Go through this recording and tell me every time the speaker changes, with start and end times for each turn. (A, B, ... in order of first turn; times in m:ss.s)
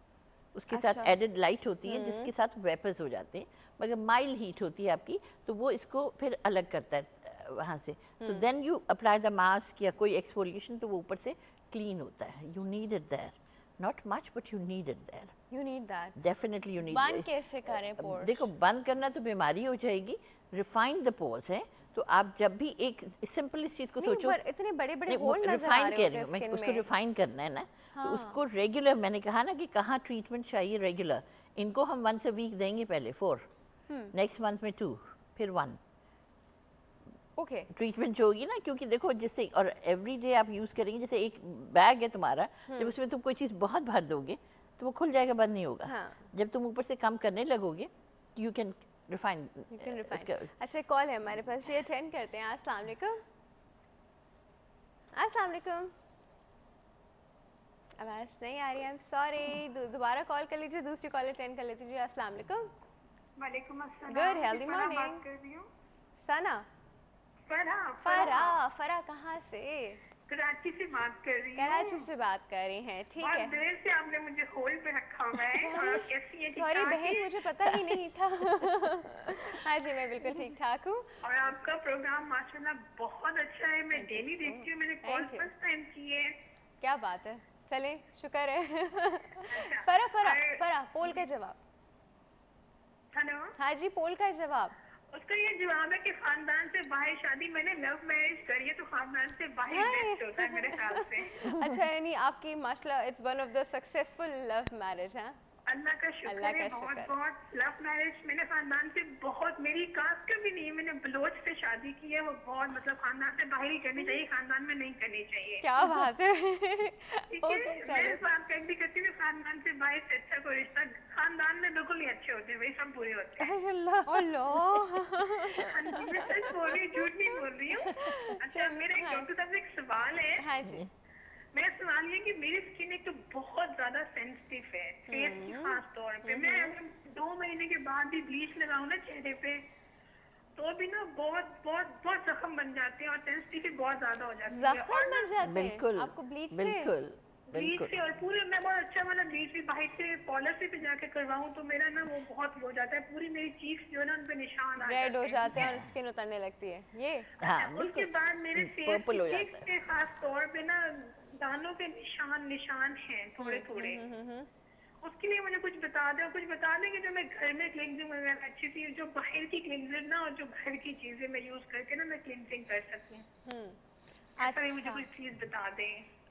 0:00.5-0:15.3 A
0:00.7-0:01.1 B
0:01.8-0:02.3 B
0:15.5-0:16.2 B
0:16.2-0:24.4 A
0:16.9-0:18.5 B
0:24.0-0:26.8 B
0:25.1-0:33.4 A
0:27.9-0:28.4 B
0:33.9-0:34.1 B
0:34.1-0:35.8 A
0:37.4-0:37.7 B
0:37.7-0:50.5 A
0:45.8-0:46.2 B
0:49.7-0:53.2 B
0:55.1-0:55.9 B
0:58.0-1:02.7 B
1:03.4-1:05.7 C
1:04.1-1:05.2 B
1:06.2-1:06.7 B
1:07.5-1:08.6 C
1:08.0-1:10.0 B
1:10.3-1:12.1 C
1:11.6-1:13.6 B
1:13.2-1:17.4 C
1:15.4-1:21.1 B
1:21.2-1:26.4 C
1:23.9-1:25.5 B
1:26.8-1:31.6 B
1:29.5-1:30.6 C
1:33.1-1:33.5 C
1:33.6-1:34.8 B
1:35.1-1:41.4 C
1:39.7-1:45.4 B
1:41.5-1:41.8 A
1:45.7-1:56.1 C
1:46.2-1:47.1 B
1:55.6-1:58.2 B
1:57.3-2:03.5 C
2:03.4-2:04.8 A
2:04.0-2:09.3 B
2:05.4-2:06.0 A
2:05.6-2:10.4 C
2:10.4-2:10.9 B
2:11.5-2:19.6 C
2:15.1-2:16.8 B
2:20.6-2:25.3 C
2:24.5-2:26.9 B
2:25.4-2:28.0 A
2:27.5-2:35.6 C
2:34.8-2:37.3 B
2:35.5-2:35.9 A
2:37.4-2:44.0 C
2:37.4-2:39.7 A
2:43.4-2:44.5 B
2:45.0-2:53.2 C
2:53.4-2:53.8 B
2:54.4-2:55.0 B
2:54.4-2:56.1 C